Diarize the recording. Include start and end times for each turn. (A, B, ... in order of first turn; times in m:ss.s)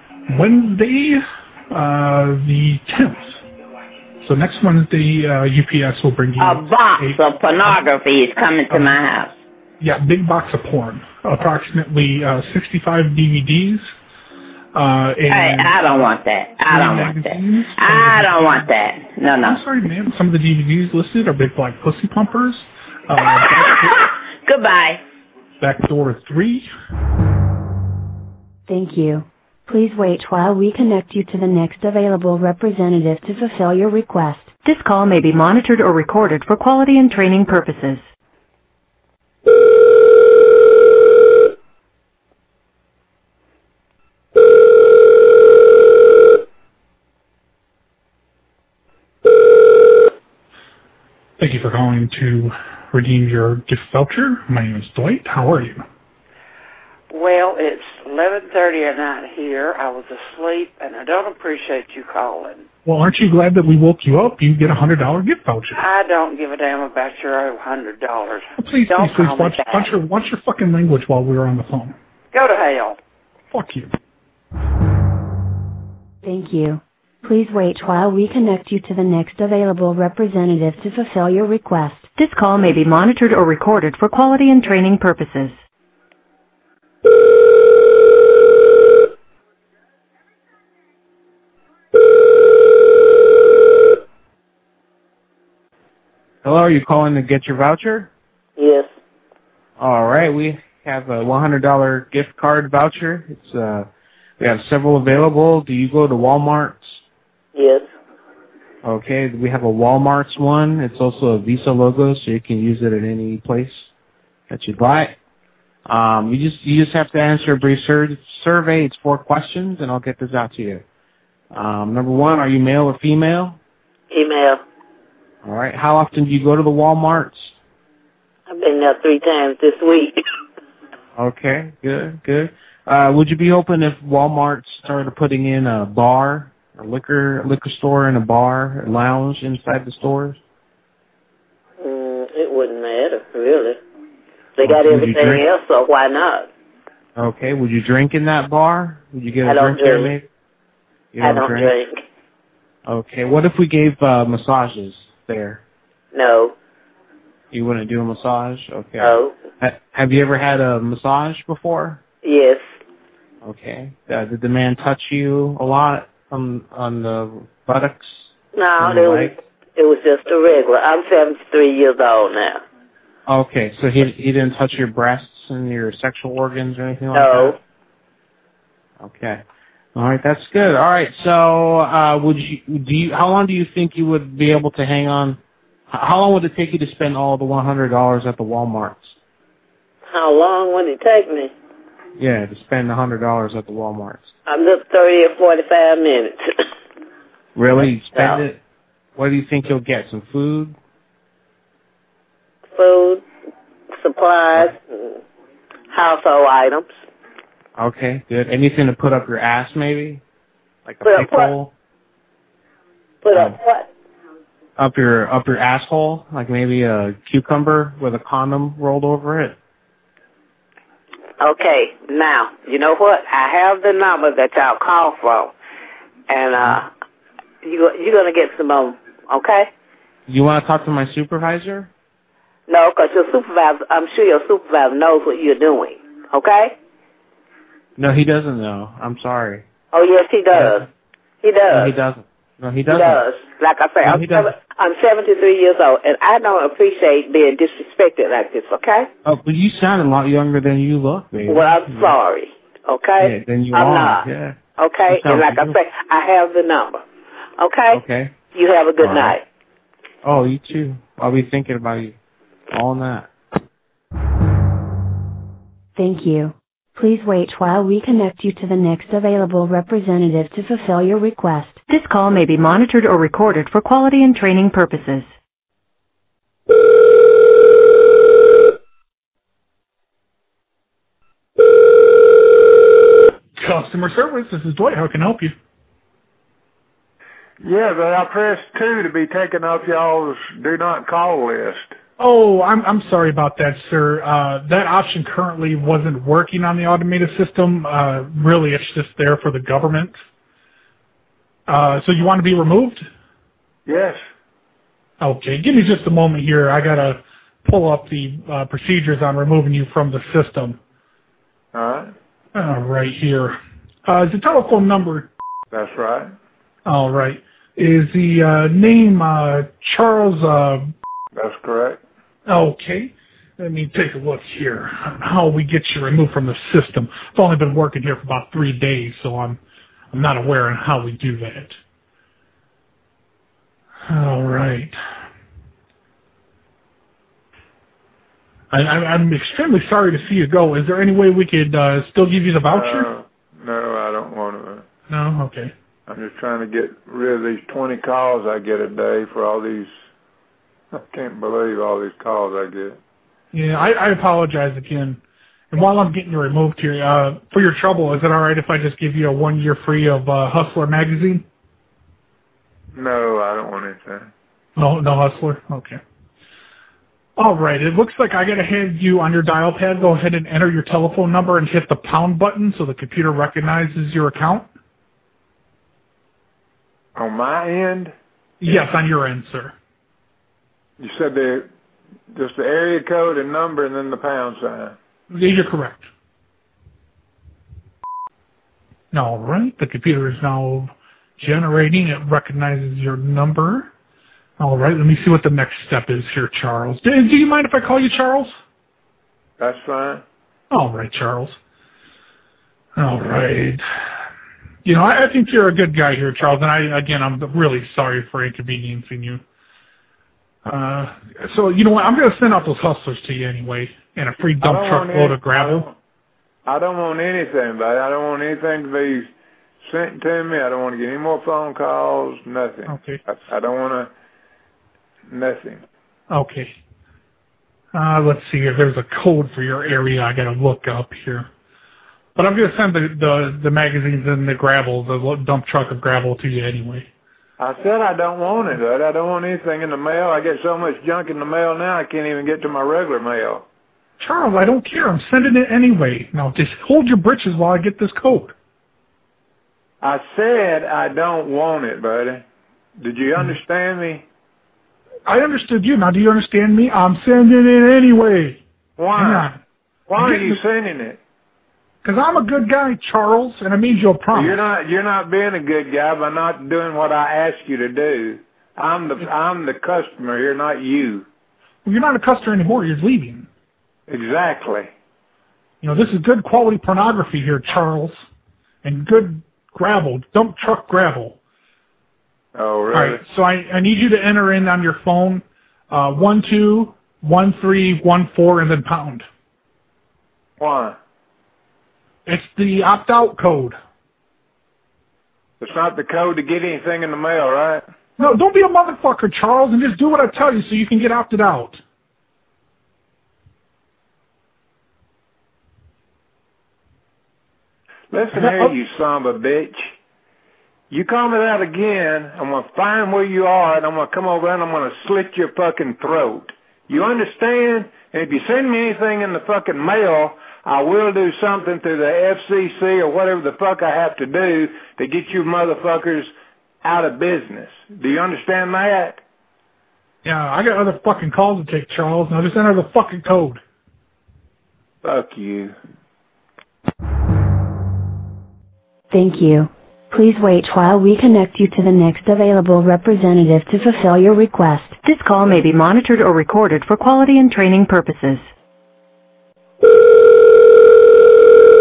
0:00.3-0:03.4 A
0:04.2-0:07.8 A
0:06.4-0:09.3 B
0:08.7-0:09.0 A
0:09.8-0:13.9 A
0:14.7-0:15.8 A
0:15.3-0:19.6 B
0:16.7-0:18.6 A
0:19.4-0:24.1 A
0:23.4-0:25.0 B
0:25.6-0:26.7 A
0:28.7-0:34.5 C
0:34.6-0:38.0 D
0:51.4-0:55.8 A
0:57.1-1:02.6 E
1:02.8-1:05.8 A
1:05.7-1:09.9 E
1:08.6-1:12.0 A
1:12.3-1:13.0 E
1:13.5-1:13.9 A
1:16.2-1:22.1 C
1:22.2-1:25.6 D
1:36.4-1:38.1 F
1:38.6-1:38.9 E
1:39.8-1:43.9 F
1:44.4-1:47.0 F
1:47.5-1:47.8 E
1:48.8-1:53.9 F
1:54.5-1:55.1 F
1:55.8-2:00.8 F
2:01.5-2:03.6 F
2:04.1-2:04.6 E
2:05.4-2:07.5 F
2:08.5-2:10.2 E
2:11.2-2:20.4 F
2:21.8-2:23.8 E
2:24.6-2:26.5 E
2:24.6-2:25.4 F
2:27.2-2:30.2 F
2:29.4-2:30.1 E
2:31.1-2:31.8 F
2:31.2-2:32.0 E
2:32.8-2:35.6 F
2:36.1-2:36.5 E
2:37.5-2:42.0 F
2:39.0-2:39.3 E
2:42.2-2:42.6 E
2:43.4-2:49.3 F
2:48.5-2:52.6 E
2:53.3-2:57.6 F
2:57.1-2:57.6 E
2:59.0-2:59.4 F
2:59.9-3:05.4 F
3:05.9-3:09.2 F
3:10.1-3:11.5 E
3:12.2-3:14.3 F
3:14.5-3:16.5 E
3:17.5-3:18.6 F
3:18.1-3:18.4 E
3:19.2-3:20.7 F
3:22.7-3:23.2 E
3:23.9-3:25.2 E
3:25.9-3:26.9 E
3:27.8-3:30.2 F
3:30.8-3:31.7 F
3:31.0-3:31.5 E
3:33.2-3:33.9 E
3:34.8-3:39.5 F
3:41.4-3:45.5 E
3:46.3-3:46.9 E
3:47.6-3:49.7 E
3:50.3-3:51.9 F
3:52.7-3:56.7 E
3:58.0-3:59.6 F
3:59.9-4:00.8 E
4:00.5-4:00.8 F
4:01.4-4:01.9 E
4:01.7-4:03.2 F
4:02.9-4:09.1 E
4:04.0-4:04.5 F
4:09.2-4:12.2 F
4:11.5-4:17.0 E
4:13.2-4:15.8 F
4:17.6-4:18.0 E
4:17.9-4:18.4 F
4:18.5-4:19.4 E
4:19.0-4:19.4 F
4:20.2-4:22.1 F
4:22.7-4:23.3 F
4:26.0-4:31.8 C
4:31.9-4:35.3 D
4:43.6-4:45.5 A
4:47.6-4:52.0 G
4:52.2-5:00.2 A
5:01.7-5:03.1 A
5:03.8-5:04.2 G
5:05.2-5:10.8 A
5:11.7-5:12.1 G
5:12.5-5:15.3 A
5:15.7-5:16.3 G
5:16.8-5:20.9 A
5:21.3-5:22.0 G
5:22.4-5:29.6 A
5:30.1-5:31.8 A
5:34.1-5:35.0 A
5:38.7-5:43.1 A
5:42.7-5:44.8 G
5:45.1-5:45.7 A
5:46.1-5:49.9 G
5:50.9-5:53.0 G
5:53.5-5:55.2 A
5:55.7-6:01.4 A
6:02.9-6:04.3 G
6:04.8-6:06.0 A
6:07.4-6:14.7 A
6:17.1-6:18.1 G
6:18.6-6:19.7 A
6:21.0-6:21.7 G
6:22.3-6:25.0 G
6:25.3-6:26.1 A
6:29.1-6:33.9 A
6:34.6-6:38.6 A
6:39.6-6:40.2 G
6:40.7-6:41.6 A
6:43.0-6:43.8 A
6:44.8-6:49.4 A
6:50.6-6:55.9 A
6:54.6-6:55.9 G
6:56.6-6:59.3 G
6:59.8-7:04.1 G
7:02.9-7:03.2 A
7:05.3-7:05.8 G
7:06.3-7:06.8 A
7:07.9-7:11.5 A
7:12.4-7:17.1 A
7:17.6-7:23.6 G
7:24.2-7:28.5 A
7:30.0-7:32.4 G
7:33.0-7:34.2 G
7:35.3-7:38.6 A
7:39.0-7:39.5 G
7:39.2-7:39.6 A
7:40.1-7:41.2 G
7:40.2-7:40.6 A
7:42.0-7:44.6 A
7:44.3-7:51.3 G
7:51.8-7:53.5 A
7:54.1-7:54.9 G
7:55.8-7:58.2 A
7:58.8-8:01.4 A
8:02.5-8:03.2 G
8:02.9-8:09.3 A
8:10.6-8:11.0 G
8:12.2-8:13.8 A
8:15.6-8:17.8 G
8:18.2-8:21.8 A
8:28.1-8:30.0 G
8:28.3-8:28.8 A
8:30.9-8:46.3 G
8:46.8-8:49.2 G
8:50.2-8:53.6 A
8:55.0-8:55.7 G
8:59.1-9:05.0 C
9:05.0-9:08.5 D